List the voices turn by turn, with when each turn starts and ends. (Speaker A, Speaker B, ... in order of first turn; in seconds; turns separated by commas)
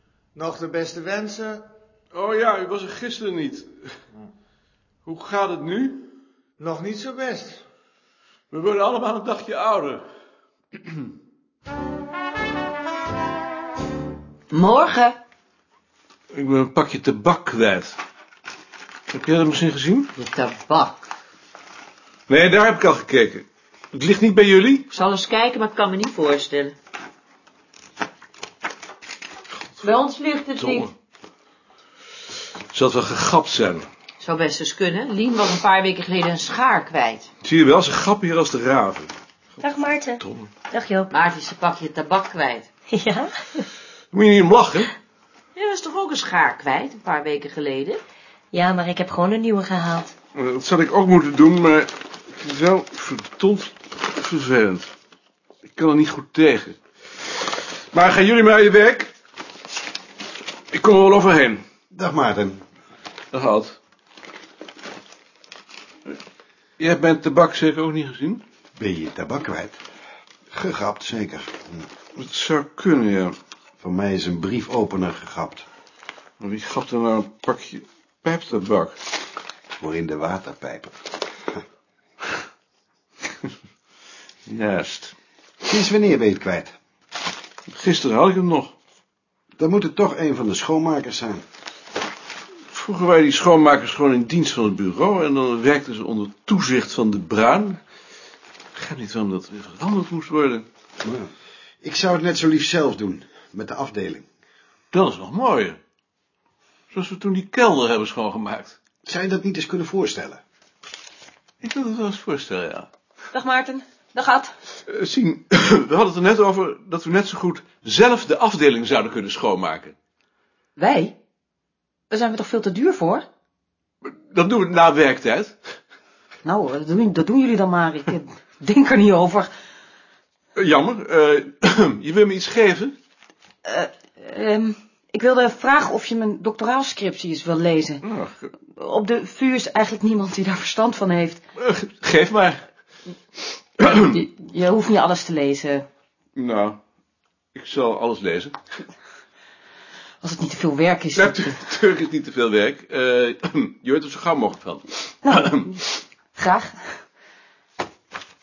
Speaker A: 0.3-1.6, Speaker B: 2.1-3.9, Speaker B: 5.0-6.1, Speaker A: 6.6-7.6, Speaker B: 8.5-10.1, Speaker C: 14.5-15.2, Speaker B: 16.3-18.0, Speaker B: 19.1-20.1, Speaker C: 20.1-21.0, Speaker B: 22.3-24.9, Speaker C: 24.9-26.7, Speaker C: 29.8-30.9, Speaker B: 30.6-30.9, Speaker B: 32.7-33.9, Speaker C: 34.2-37.3, Speaker B: 37.4-39.1, Speaker D: 39.6-41.1, Speaker B: 40.2-40.5, Speaker C: 41.1-42.7, Speaker D: 42.9-43.6, Speaker B: 44.1-44.9, Speaker C: 45.5-48.0, Speaker D: 48.5-50.1, Speaker B: 50.3-54.9, Speaker B: 55.7-56.8, Speaker B: 57.9-59.1, Speaker B: 60.7-61.6, Speaker E: 61.9-62.6, Speaker B: 63.3-63.8, Speaker B: 66.8-68.4, Speaker E: 68.8-69.8, Speaker E: 70.5-71.8, Speaker B: 72.2-73.3, Speaker E: 73.8-75.7, Speaker B: 76.4-79.0, Speaker E: 79.8-80.9, Speaker B: 84.5-85.1, Speaker E: 85.6-86.7, Speaker B: 87.7-88.7, Speaker E: 89.6-91.4, Speaker B: 92.7-97.8, Speaker B: 98.7-100.7, Speaker E: 101.0-101.3, Speaker E: 101.8-104.2, Speaker B: 104.9-105.8, Speaker B: 106.9-108.8, Speaker E: 109.0-110.4, Speaker B: 111.6-112.9, Speaker F: 113.3-114.5, Speaker B: 114.8-119.9, Speaker F: 120.8-121.1, Speaker F: 122.1-123.2, Speaker B: 124.0-125.5, Speaker F: 126.4-129.5, Speaker B: 130.6-132.9, Speaker F: 133.7-138.0, Speaker B: 138.0-138.5, Speaker F: 138.8-141.4, Speaker B: 141.6-142.6, Speaker B: 143.8-144.2, Speaker F: 143.9-145.8, Speaker B: 146.3-146.8, Speaker B: 147.5-148.6, Speaker F: 150.2-151.6, Speaker B: 151.1-155.8, Speaker F: 155.2-155.7, Speaker F: 156.4-157.0